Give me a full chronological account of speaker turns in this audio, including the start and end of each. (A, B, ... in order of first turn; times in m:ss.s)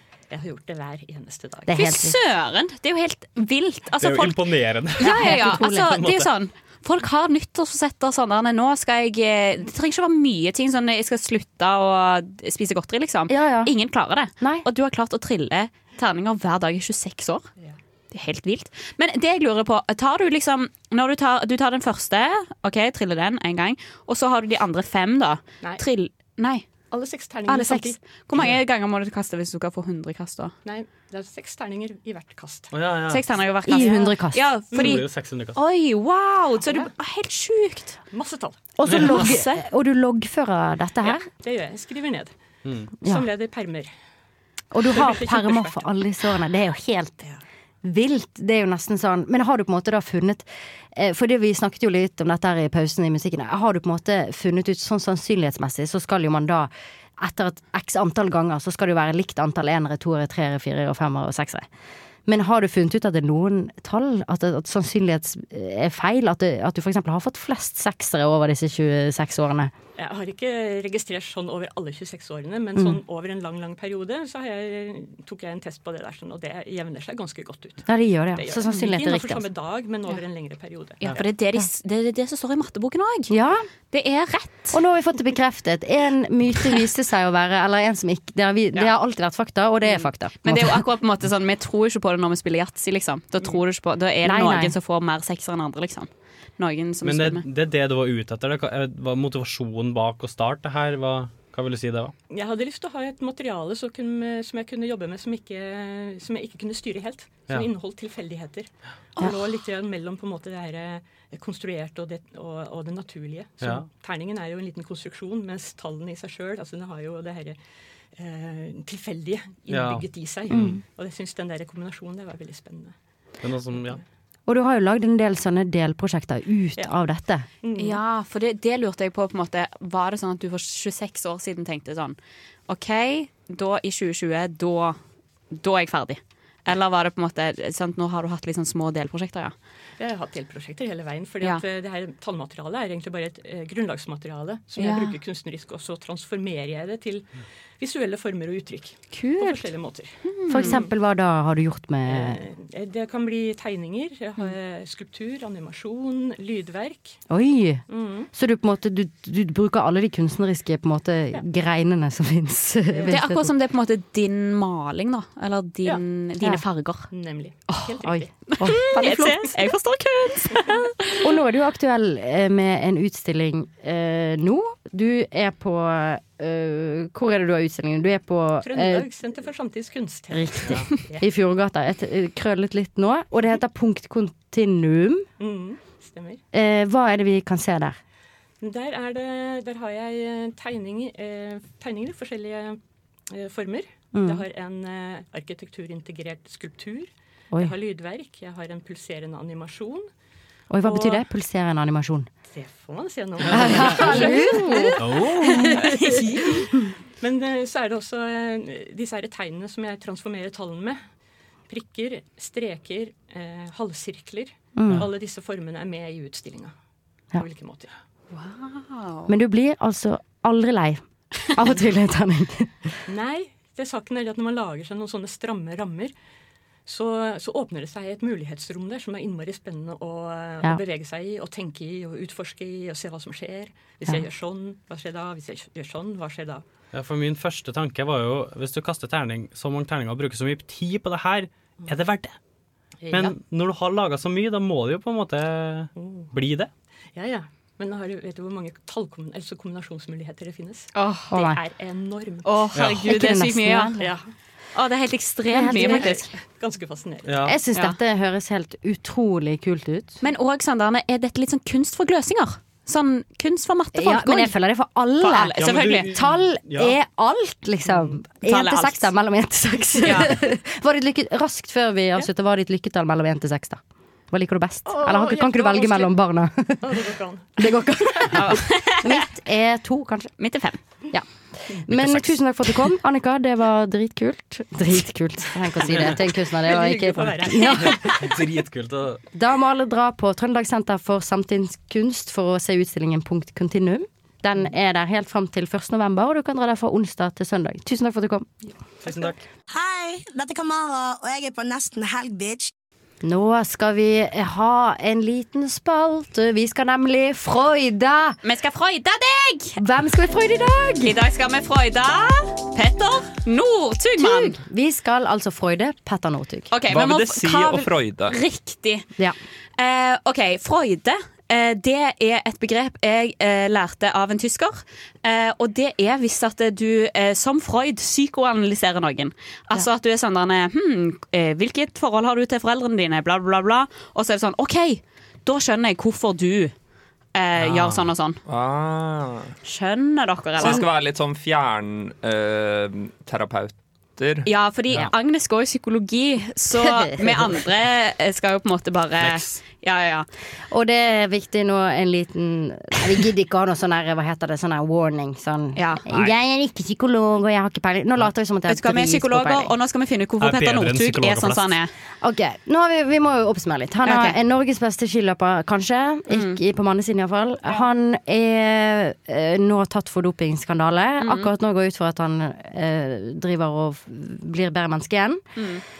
0:00.3-0:01.8 A
0:01.7-0:02.2 B
0:01.7-0:04.4 C
0:04.0-0:06.3 D
0:05.0-0:17.4 C
0:05.0-0:06.0 B
0:13.3-0:13.7 B
0:14.4-0:14.6 B
0:18.1-0:26.7 C
0:26.9-0:28.6 A
0:27.5-0:30.5 C
0:30.6-0:32.7 A
0:32.7-0:33.2 D
0:33.1-0:38.0 C
0:33.7-0:34.4 B
0:34.7-0:35.6 D
0:38.1-0:38.7 A
0:38.8-0:41.3 B
0:38.9-0:39.2 D
0:39.1-0:39.6 C
0:41.0-0:42.3 A
0:42.6-0:42.9 D
0:43.0-0:43.9 A
0:44.7-0:47.2 B
0:44.8-0:45.9 A
0:47.8-1:01.6 B
1:02.3-1:09.7 B
1:10.0-1:21.1 A
1:17.9-1:19.5 B
1:21.0-1:23.3 C
1:23.3-1:23.6 B
1:23.9-1:24.8 C
1:24.7-1:30.8 B
1:29.9-1:37.4 C
1:34.2-1:34.7 B
1:37.0-1:42.1 D
1:42.3-1:57.6 A
1:53.6-1:53.9 D
1:58.2-2:03.0 A
1:59.7-2:00.1 D
2:00.5-2:00.8 B
2:03.4-2:04.0 D
2:03.7-2:04.0 A
2:04.5-2:07.5 B
2:07.6-2:08.0 A
2:07.8-2:12.2 C
2:12.7-2:15.0 C
2:15.5-2:19.5 C
2:20.0-2:27.3 A
2:24.8-2:25.2 C
2:27.8-2:30.9 A
2:29.2-2:29.5 C
2:30.3-2:30.8 C
2:30.5-2:32.4 B
2:32.1-2:37.2 A
2:37.3-2:43.5 B
2:37.9-2:38.3 A
2:43.0-2:47.1 C
2:47.1-2:48.3 A
2:48.0-2:49.5 B
2:48.5-2:51.2 C
2:49.0-2:49.3 A
2:51.2-2:59.1 B
2:58.6-3:01.3 A
3:00.3-3:05.3 B
3:05.4-3:06.4 A
3:06.5-3:08.0 B
3:08.6-3:20.1 A
3:14.1-3:14.4 B
3:20.7-3:22.3 B
3:20.8-3:21.2 A
3:22.5-3:31.0 A
3:23.5-3:26.9 B
3:23.8-3:24.9 C
3:25.0-3:25.8 D
3:31.7-3:36.7 A
3:34.8-3:35.1 B
3:37.4-3:37.9 A
3:38.3-3:39.3 C
3:39.3-3:41.0 B
3:41.5-3:42.9 B
3:43.1-3:46.1 A
3:46.9-3:56.7 A
3:56.9-4:02.3 D
4:03.0-4:03.4 A
4:03.1-4:06.7 D
4:06.0-4:06.3 A
4:07.2-4:12.5 A
4:10.9-4:11.3 C
4:11.3-4:11.6 B
4:12.4-4:14.0 C
4:12.8-4:13.1 D
4:12.9-4:14.1 B
4:14.0-4:14.2 A
4:14.7-4:16.3 C
4:15.5-4:16.2 B
4:15.6-4:17.5 A
4:17.3-4:17.6 D
4:17.4-4:20.2 B
4:20.2-4:24.5 C
4:24.0-4:33.8 B
4:25.2-4:26.1 C
4:25.6-4:27.0 D
4:28.4-4:29.1 C
4:30.0-4:30.3 C
4:34.3-4:37.1 B
4:34.9-4:36.1 A
4:36.8-4:37.6 A
4:37.6-4:40.3 B
4:38.3-4:39.2 C
4:40.4-4:40.8 C
4:41.8-4:48.3 B
4:46.6-4:48.3 A
4:47.8-4:49.2 D
4:49.3-4:58.6 B
4:59.0-4:59.4 D
4:59.7-5:02.7 E
5:03.2-5:08.4 B
5:08.4-5:09.8 C
5:09.8-5:11.2 B
5:11.0-5:14.6 C
5:14.2-5:16.7 B
5:16.7-5:19.0 C
5:16.9-5:18.4 F
5:19.8-5:36.7 C
5:37.4-5:38.4 C
5:37.6-5:38.0 D
5:38.4-5:39.5 F
5:39.6-5:40.8 C
5:40.6-5:44.5 F
5:44.4-5:50.3 C
5:46.8-5:47.6 B
5:49.2-5:49.6 D
5:50.7-5:59.7 B
5:55.8-5:56.0 C
5:58.7-6:01.9 C
6:00.4-6:01.8 D
6:02.2-6:15.4 B
6:04.0-6:04.4 C
6:06.3-6:06.6 C
6:11.2-6:11.5 C
6:15.6-6:15.8 C